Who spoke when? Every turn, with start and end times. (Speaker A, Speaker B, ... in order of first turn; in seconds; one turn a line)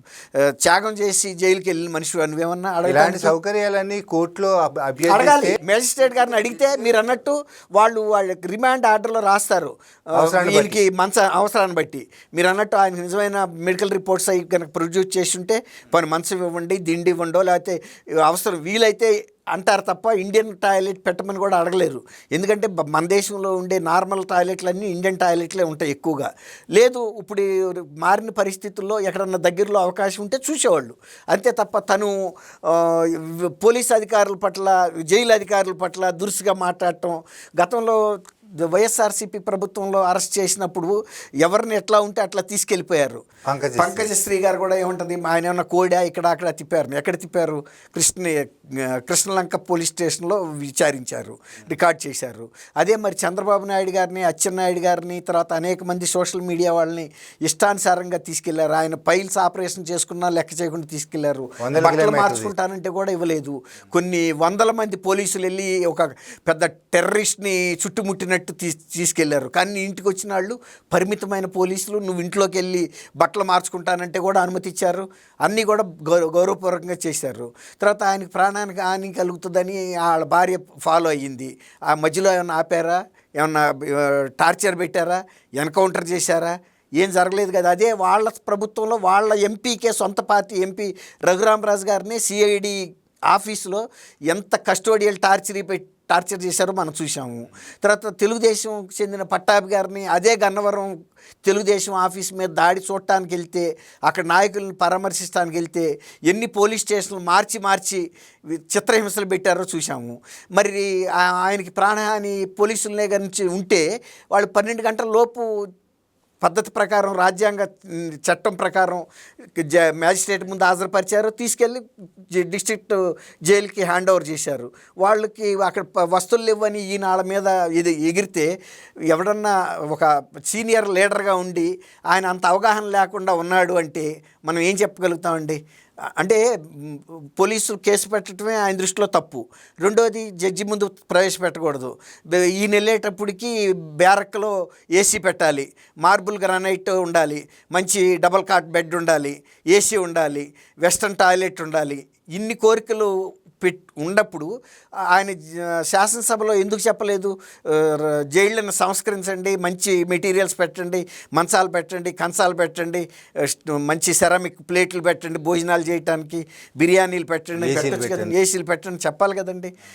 Speaker A: 0.3-3.3
Speaker B: 2.9-5.6
Speaker A: 5.1-43.2
Speaker B: 10.1-10.8
Speaker B: 43.5-44.1
Speaker A: 43.8-115.7
Speaker B: 61.6-62.5
Speaker A: 116.4-119.0
Speaker A: 119.5-128.5
Speaker A: 129.1-135.6
Speaker A: 136.2-154.5
Speaker A: 155.1-169.7
Speaker B: 167.6-168.3